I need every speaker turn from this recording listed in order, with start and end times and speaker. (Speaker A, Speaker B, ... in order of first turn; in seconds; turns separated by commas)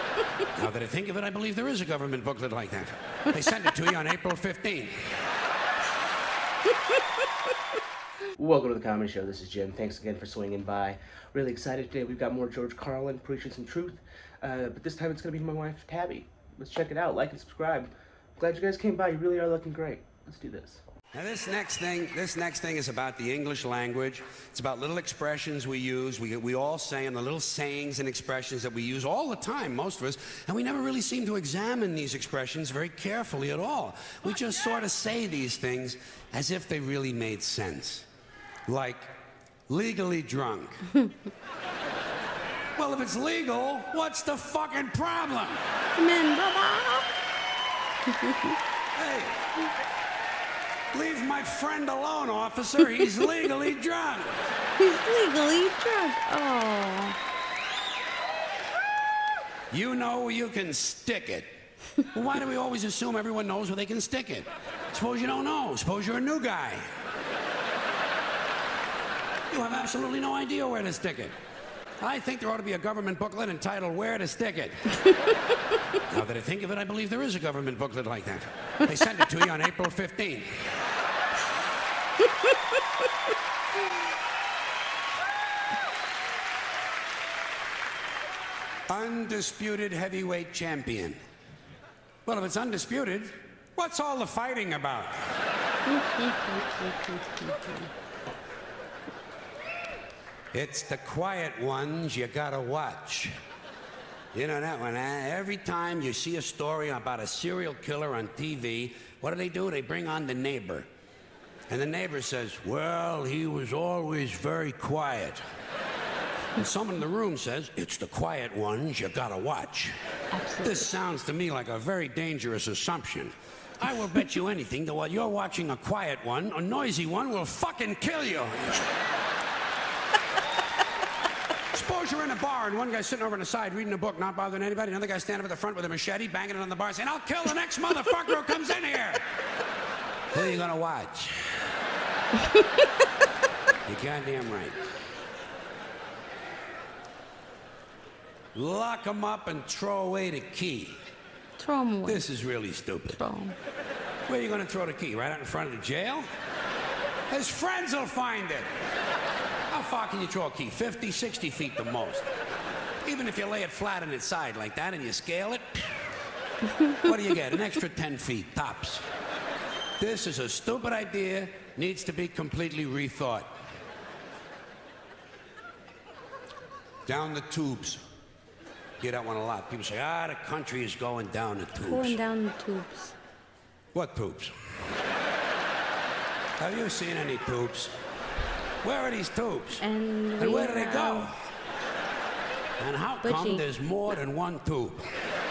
Speaker A: 0.5-4.9, Speaker B: 8.3-20.8, Speaker A: 21.1-38.1, Speaker A: 38.7-39.1, Speaker A: 39.7-40.9, Speaker A: 42.7-45.6, Speaker C: 46.0-47.1, Speaker C: 48.1-48.5, Speaker A: 48.9-49.4, Speaker A: 50.9-54.5, Speaker C: 54.8-57.2, Speaker A: 59.7-61.5, Speaker A: 62.0-66.9, Speaker A: 69.5-71.3, Speaker A: 72.0-74.9, Speaker A: 76.1-80.5, Speaker A: 88.9-91.2, Speaker A: 92.2-95.1, Speaker C: 95.8-97.9, Speaker A: 100.5-103.3, Speaker A: 104.3-110.9, Speaker A: 111.7-115.4, Speaker A: 116.5-120.0, Speaker C: 120.3-120.9, Speaker A: 120.6-128.9, Speaker A: 131.7-139.2, Speaker A: 140.3-141.5, Speaker A: 143.9-144.8, Speaker A: 148.5-150.9, Speaker C: 151.6-152.2, Speaker A: 152.0-153.2, Speaker C: 153.1-153.6, Speaker A: 154.3-156.3, Speaker A: 157.3-158.7, Speaker A: 159.7-162.3, Speaker A: 163.0-165.9, Speaker A: 166.9-169.1, Speaker A: 170.0-173.5, Speaker A: 177.1-178.0, Speaker A: 179.0-182.2, Speaker C: 181.8-183.1, Speaker A: 183.9-184.5, Speaker A: 186.6-187.9, Speaker A: 188.8-189.8, Speaker C: 189.8-191.3, Speaker A: 190.4-191.3, Speaker A: 192.8-195.1, Speaker C: 193.2-193.7